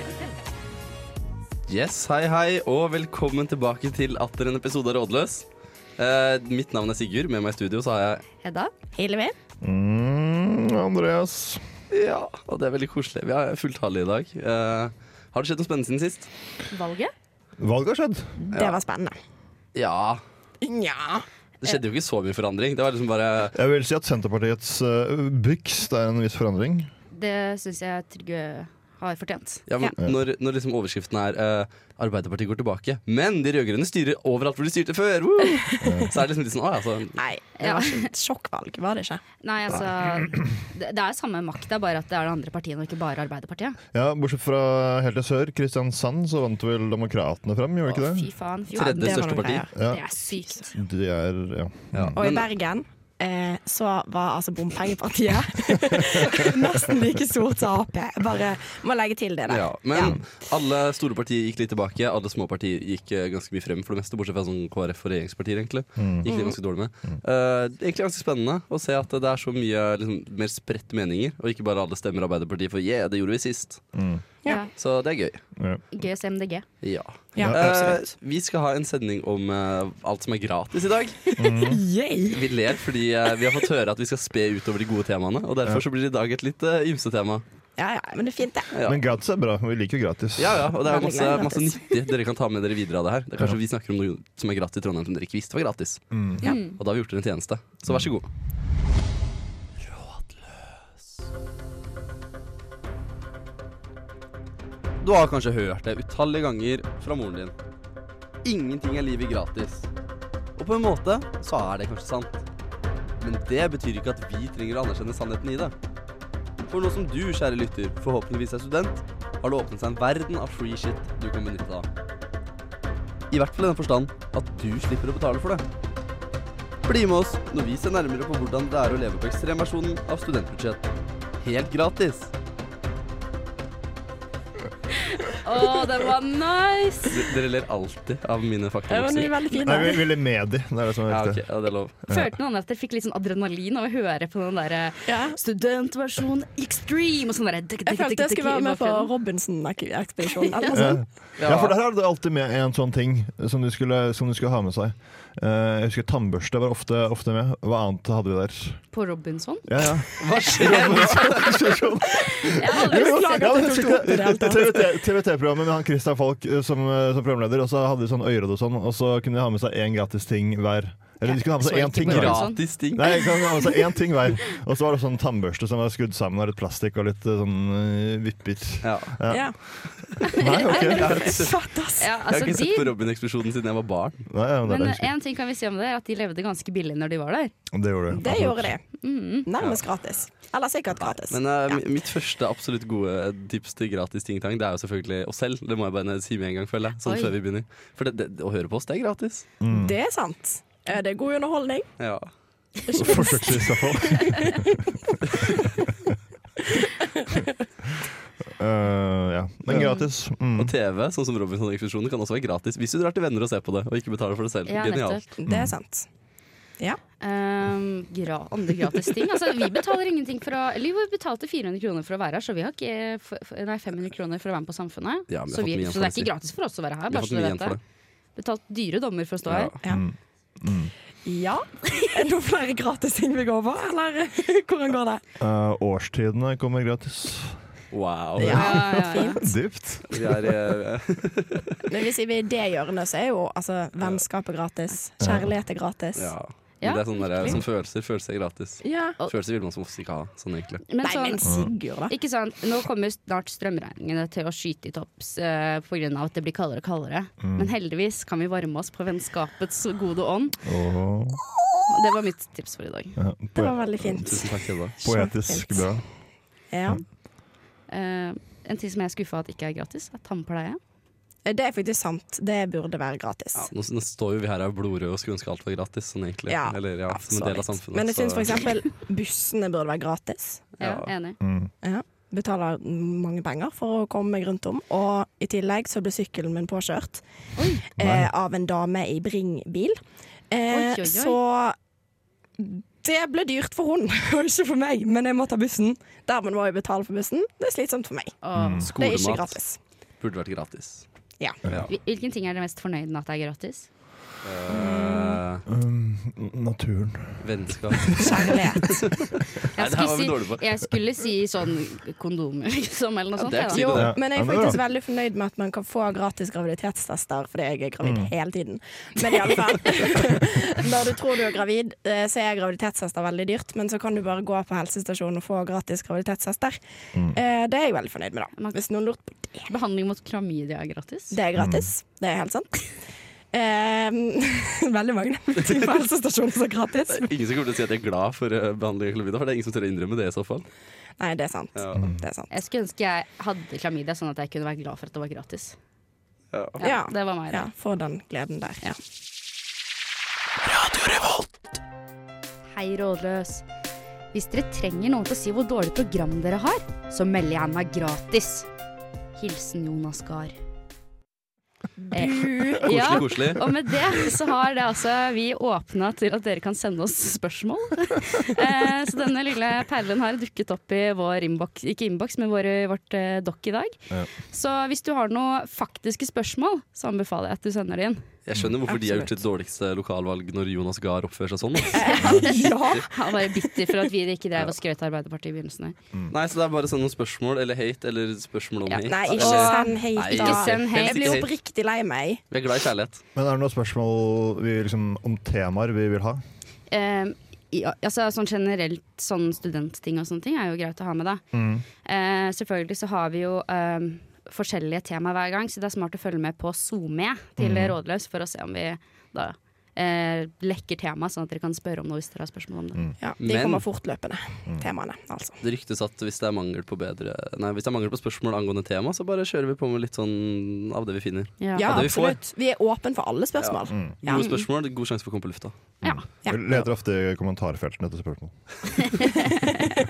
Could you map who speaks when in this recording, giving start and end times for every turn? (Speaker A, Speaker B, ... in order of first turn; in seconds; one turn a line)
Speaker A: 1.7-5.5
Speaker A: 6.0-8.2
Speaker B: 8.4-8.7
Speaker C: 8.9-9.3
Speaker D: 9.6-11.6
Speaker A: 11.9-16.3
Speaker B: 16.7-17.1
Speaker D: 17.6-18.5
Speaker C: 18.5-19.1
Speaker A: 18.5-18.8
Speaker A: 19.8-20.2
Speaker C: 20.6-21.3
Speaker A: 21.6-23.6
Speaker D: 23.5-26.9
Speaker B: 27.1-29.6
Speaker A: 29.7-37.2
Speaker D: 35.8-36.1
Speaker C: 37.2-39.2
Speaker B: 37.6-38.1
Speaker B: 39.4-43.8
Speaker D: 43.9-48.3
Speaker B: 47.9-50.7
Speaker C: 48.7-50.4
Speaker A: 48.8-49.7
Speaker D: 49.7-50.0
Speaker D: 50.7-52.2
Speaker A: 51.9-52.5
Speaker C: 52.2-60.2
Speaker A: 59.5-73.9
Speaker D: 66.0-66.3
Speaker C: 66.2-66.6
Speaker D: 74.0-74.2
Speaker B: 74.5-74.7
Speaker A: 74.7-75.4
Speaker D: 75.6-75.8
Speaker B: 75.9-76.7
Speaker A: 76.8-81.3
Speaker C: 77.3-78.0
Speaker D: 77.4-77.8
Speaker C: 81.3-82.8
Speaker D: 81.4-81.8
Speaker A: 82.3-87.4
Speaker C: 87.8-88.7
Speaker A: 88.7-89.0
Speaker D: 88.8-90.8
Speaker A: 90.4-96.2
Speaker C: 90.8-91.9
Speaker D: 96.1-96.5
Speaker B: 96.4-96.8
Speaker A: 96.7-98.3
Speaker A: 99.9-100.4
Speaker A: 105.0-107.5
Speaker A: 108.5-109.9
Speaker A: 110.6-112.4
Speaker A: 113.2-115.7
Speaker A: 116.7-121.9
Speaker A: 123.3-125.7
Speaker A: 126.9-130.9
Speaker A: 131.4-132.3
Speaker B: 134.9-137.2
Speaker A: 137.1-139.3
Speaker C: 138.9-140.0
Speaker D: 139.6-141.4
Speaker A: 141.1-141.9
Speaker D: 142.0-142.3
Speaker B: 142.1-149.1
Speaker C: 145.1-145.4
Speaker C: 147.9-151.0
Speaker B: 150.5-150.8
Speaker D: 150.7-158.8
Speaker A: 151.4-151.8
Speaker B: 158.9-159.7
Speaker D: 159.7-181.3
Speaker A: 160.2-161.6
Speaker B: 162.4-163.6
Speaker C: 162.6-164.8
Speaker B: 171.2-172.7
Speaker A: 172.1-173.2
Speaker A: 178.8-179.3
Speaker C: 179.3-179.6
Speaker B: 180.3-181.4
Speaker A: 180.7-181.7
Speaker C: 181.2-182.1
Speaker B: 182.0-182.9
Speaker A: 182.2-184.2
Speaker D: 184.3-185.1
Speaker B: 184.7-187.5
Speaker D: 187.7-188.7
Speaker C: 188.1-188.8
Speaker B: 189.0-189.5
Speaker C: 189.4-191.8
Speaker A: 191.0-199.5
Speaker B: 197.0-197.3
Speaker D: 199.6-200.0
Speaker C: 199.7-201.9
Speaker A: 202.0-202.3
Speaker C: 202.9-204.6
Speaker D: 203.0-204.8
Speaker D: 208.6-210.7
Speaker B: 209.8-210.1
Speaker A: 210.6-215.2
Speaker B: 214.7-215.3
Speaker C: 215.4-216.1
Speaker D: 215.5-215.8
Speaker B: 217.2-227.8
Speaker A: 225.3-226.3
Speaker A: 227.1-227.8
Speaker B: 228.4-229.7
Speaker A: 229.5-229.8
Speaker D: 229.8-230.9
Speaker C: 231.2-235.2
Speaker D: 235.4-237.6
Speaker A: 237.9-238.7
Speaker D: 238.4-240.6
Speaker C: 238.4-239.4
Speaker B: 238.5-239.4
Speaker A: 240.1-241.8
Speaker C: 241.9-246.3
Speaker D: 245.2-245.5
Speaker A: 246.2-250.8
Speaker B: 246.8-247.3
Speaker C: 248.8-249.2
Speaker B: 250.9-260.6
Speaker C: 251.0-252.1
Speaker D: 251.4-251.7
Speaker D: 257.4-257.7
Speaker D: 260.6-261.4
Speaker B: 261.9-263.2
Speaker D: 263.2-264.3
Speaker C: 263.6-265.9
Speaker A: 264.2-264.9
Speaker D: 265.0-266.1
Speaker C: 266.7-267.0
Speaker B: 267.9-270.8
Speaker C: 271.4-273.7
Speaker A: 273.6-278.6
Speaker C: 276.5-280.6
Speaker A: 280.8-281.1
Speaker B: 280.8-281.4
Speaker D: 281.4-281.7
Speaker C: 281.8-287.2
Speaker B: 287.6-287.8
Speaker C: 287.8-290.0
Speaker D: 288.0-288.3
Speaker C: 290.5-291.8
Speaker B: 290.7-291.4
Speaker C: 292.6-298.4
Speaker B: 298.4-298.9
Speaker D: 298.6-298.9
Speaker A: 298.8-299.6
Speaker C: 299.0-299.8
Speaker A: 300.2-301.1
Speaker B: 301.9-303.9
Speaker A: 304.4-305.6
Speaker C: 304.7-305.4
Speaker D: 305.7-308.6
Speaker A: 307.4-310.7
Speaker C: 308.2-308.9
Speaker B: 309.8-314.0
Speaker A: 313.4-314.1
Speaker C: 313.7-329.7
Speaker D: 313.9-314.8
Speaker D: 318.0-318.3
Speaker D: 327.1-327.4
Speaker B: 329.7-331.4
Speaker C: 331.3-332.9
Speaker D: 331.6-331.9
Speaker C: 333.5-337.3
Speaker A: 337.1-340.7
Speaker C: 341.2-342.5
Speaker A: 341.8-342.1
Speaker D: 341.9-342.2
Speaker B: 342.5-345.8
Speaker A: 346.5-346.8
Speaker B: 346.8-347.7
Speaker C: 346.8-348.9
Speaker B: 352.7-353.6
Speaker B: 354.3-358.7
Speaker B: 359.4-360.6
Speaker C: 362.0-363.2
Speaker B: 362.1-374.0
Speaker A: 362.8-363.7
Speaker B: 374.5-378.2
Speaker A: 378.5-383.0
Speaker C: 378.9-379.4
Speaker C: 381.9-383.5
Speaker B: 382.0-385.9
Speaker D: 382.2-382.5
Speaker A: 386.3-391.5
Speaker B: 388.9-391.5
Speaker C: 389.1-392.4
Speaker A: 392.5-393.2
Speaker D: 393.4-396.4
Speaker B: 396.9-401.4
Speaker D: 401.5-401.9
Speaker B: 402.1-413.0
Speaker D: 407.6-408.0
Speaker C: 413.2-415.6
Speaker A: 413.4-413.8
Speaker A: 415.6-422.4
Speaker B: 421.6-422.0
Speaker C: 421.8-424.5
Speaker A: 423.6-425.8
Speaker B: 424.3-424.7
Speaker D: 426.0-428.5
Speaker B: 429.2-429.7